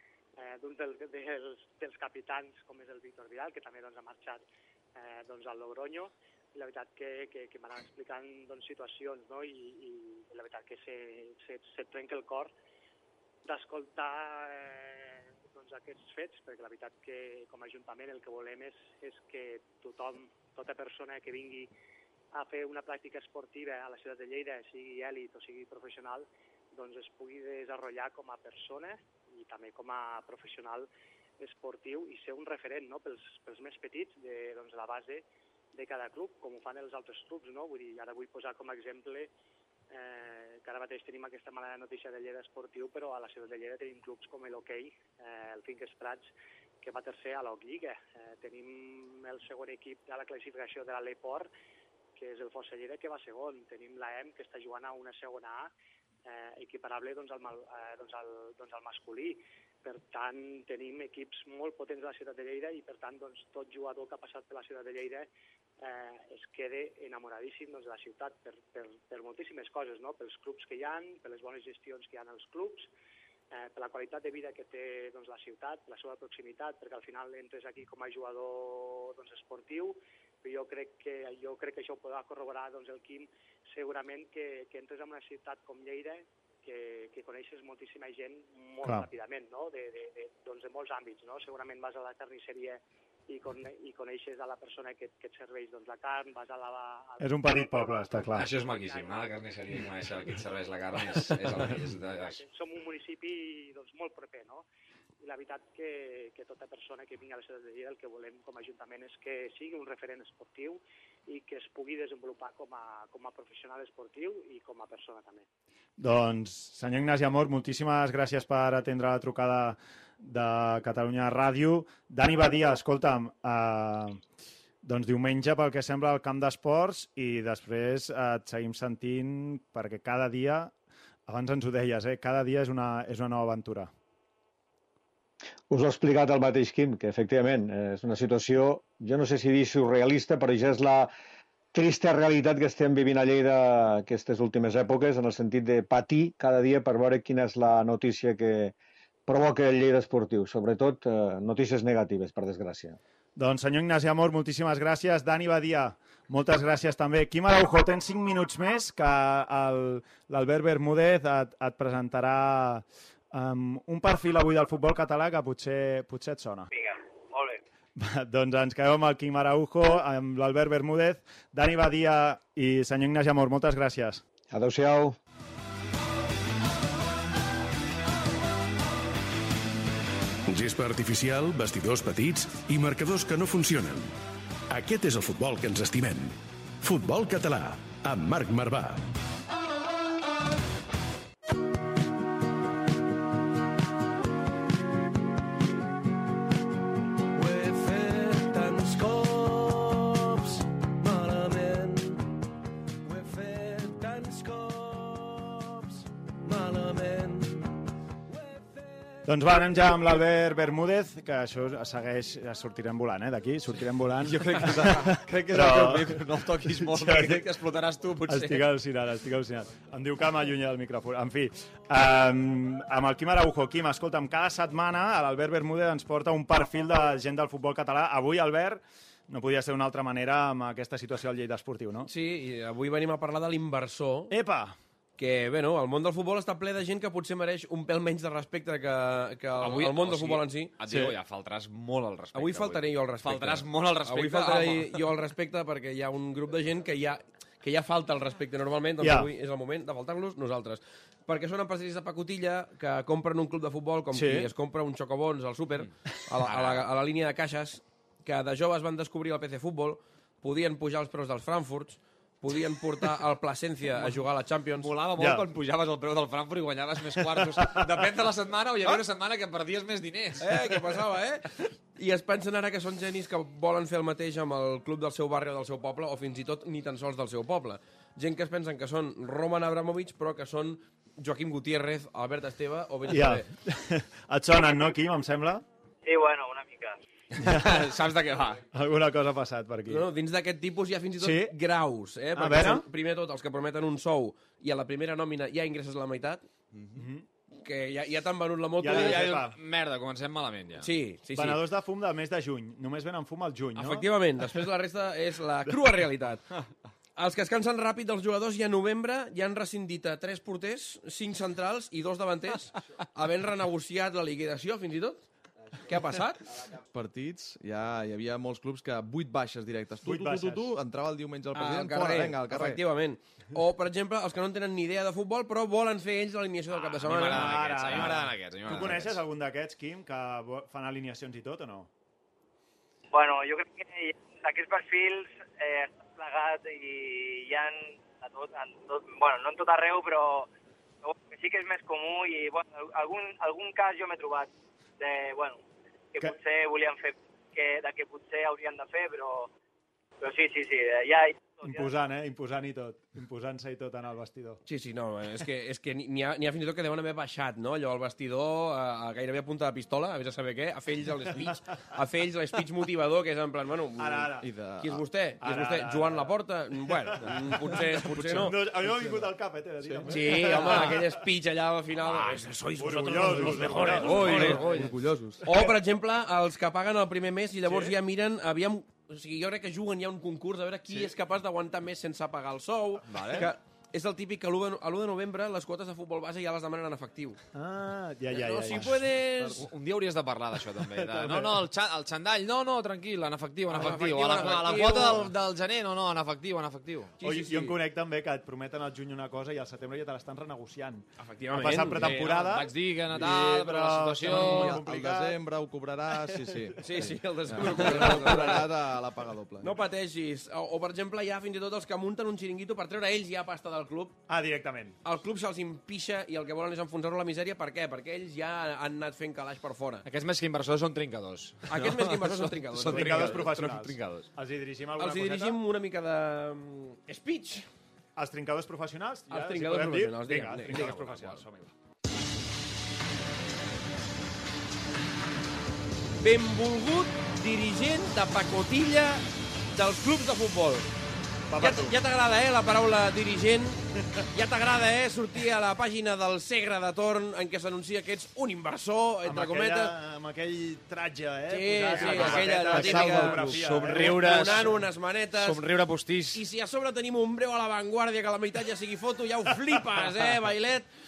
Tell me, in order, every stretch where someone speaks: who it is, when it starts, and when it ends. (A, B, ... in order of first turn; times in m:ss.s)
0:00.4-0:04.4 A
0:04.9-0:12.5 A
0:13.4-0:21.7 A
0:22.3-0:30.9 A
0:31.4-0:39.3 A
0:39.9-0:46.3 A
0:46.8-0:51.5 A
0:52.2-0:55.7 A
0:56.3-1:05.3 A
1:05.8-1:12.9 A
1:13.5-1:39.3 A
1:37.2-1:38.5 B
1:38.3-1:42.4 C
1:42.2-1:44.6 A
1:45.2-1:55.5 A
1:56.0-2:04.2 B
2:04.8-2:10.7 B
2:11.3-2:13.9 B
2:15.7-2:21.1 D
2:21.7-2:28.7 D
2:29.3-2:33.0 D
2:33.4-2:46.7 B
2:46.7-2:47.6 E
2:47.9-2:54.2 B
2:54.5-2:55.2 D
3:00.5-3:04.1 F
3:04.7-3:09.1 F
3:17.3-3:22.3 G
3:23.0-3:29.3 G
3:29.3-3:37.4 B
3:34.4-3:38.6 C
3:38.3-3:52.1 B
3:52.0-3:54.3 G
3:54.3-3:54.8 B
3:55.2-4:00.8 G
3:59.6-4:05.0 C
4:00.9-4:01.1 B
4:02.3-4:24.9 G
4:09.0-4:09.3 B
4:14.1-4:14.5 B
4:16.4-4:16.9 C
4:24.8-4:30.8 C
4:25.2-4:25.4 B
4:27.1-4:27.9 B
4:30.4-4:43.5 G
4:43.1-4:45.6 B
4:46.0-4:47.0 E
4:47.4-4:47.8 B
4:47.4-4:48.6 C
4:48.7-4:50.1 B
4:49.9-4:56.4 G
4:51.2-4:51.5 B
4:52.3-4:52.8 B
4:56.8-4:57.0 C
4:56.9-4:57.3 B
4:57.6-4:59.4 G
4:58.8-4:59.6 B
4:58.8-5:00.9 C
5:00.8-5:01.6 G
5:01.3-5:04.1 B
5:03.8-5:06.4 G
5:07.2-5:15.2 G
5:15.8-5:16.5 G
5:16.9-5:22.8 H
5:20.0-5:20.6 B
5:21.5-5:28.0 G
5:26.9-5:29.2 C
5:27.1-5:31.9 B
5:33.1-5:40.5 E
5:41.0-5:45.6 E
5:46.1-5:49.5 E
5:50.2-5:51.9 E
5:51.6-5:54.6 B
5:54.6-6:08.7 G
6:04.0-6:04.5 B
6:04.4-6:05.0 H
6:05.4-6:06.3 B
6:07.1-6:11.2 B
6:09.8-6:10.1 H
6:10.1-6:27.4 G
6:12.8-6:14.8 B
6:13.4-6:15.4 H
6:14.4-6:14.8 C
6:15.4-6:15.7 B
6:23.1-6:23.5 C
6:27.5-6:29.1 B
6:28.3-6:29.6 G
6:29.6-6:37.2 C
6:30.9-6:31.6 B
6:33.7-6:35.3 G
6:37.2-6:37.8 G
6:37.2-6:45.4 B
6:41.2-6:42.3 G
6:41.9-6:44.8 C
6:44.3-6:49.8 H
6:46.3-6:46.8 B
6:46.8-6:48.7 G
6:47.7-6:48.3 C
6:49.6-6:54.2 G
6:54.3-6:55.0 B
6:55.0-7:00.1 G
7:00.1-7:04.3 C
7:01.7-7:03.6 G
7:02.9-7:05.6 B
7:05.0-7:07.7 G
7:08.2-7:11.7 B
7:09.3-7:10.9 G
7:10.6-7:11.4 C
7:16.2-7:20.9 G
7:21.5-7:22.0 B
7:21.6-7:29.9 G
7:29.2-7:34.7 B
7:31.5-7:35.6 G
7:31.9-7:34.8 C
7:35.4-7:36.4 C
7:36.3-7:40.9 G